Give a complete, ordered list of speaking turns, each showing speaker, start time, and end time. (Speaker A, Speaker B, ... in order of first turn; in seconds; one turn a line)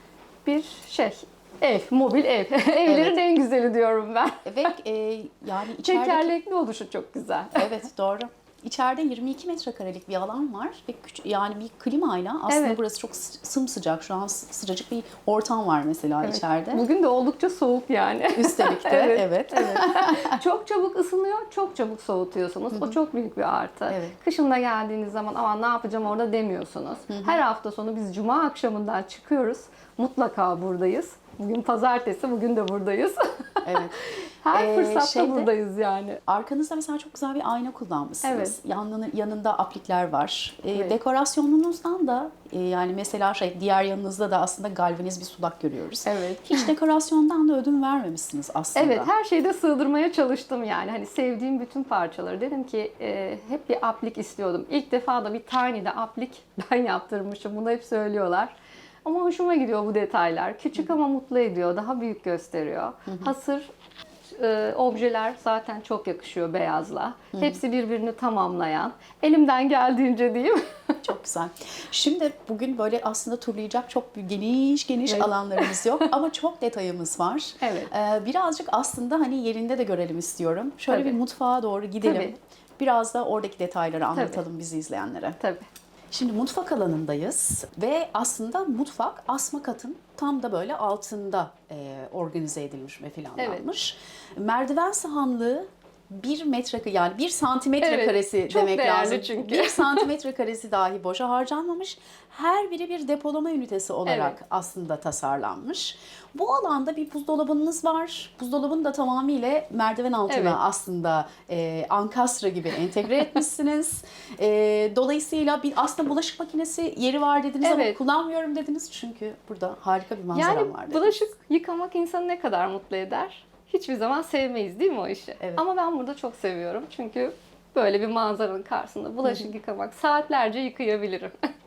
Speaker A: 0.4-4.7
Speaker B: 2.8-3.2
Speaker B: 4.4-6.3
Speaker A: 5.8-7.8
Speaker B: 7.5-16.9
Speaker A: 12.5-12.8
Speaker A: 16.2-36.2
Speaker B: 18.3-20.4
Speaker B: 22.7-23.0
Speaker B: 23.9-24.1
Speaker B: 27.1-27.4
Speaker B: 33.6-34.0
Speaker B: 34.5-35.5
Speaker B: 36.3-49.1
Speaker A: 38.2-38.6
Speaker A: 46.0-46.7
Speaker A: 48.7-63.7
Speaker B: 63.1-63.3
Speaker A: 64.3-71.0
Speaker B: 67.3-67.6
Speaker B: 71.0-85.4
Speaker A: 75.1-76.0
Speaker A: 77.6-77.9
Speaker A: 80.9-81.2
Speaker A: 82.0-82.3
Speaker A: 84.1-84.4
Speaker B: 86.1-121.2
Speaker A: 93.4-93.6
Speaker A: 97.8-100.1
Speaker A: 104.1-104.3
Speaker A: 110.3-110.6
Speaker A: 117.6-118.0
Speaker A: 120.3-131.3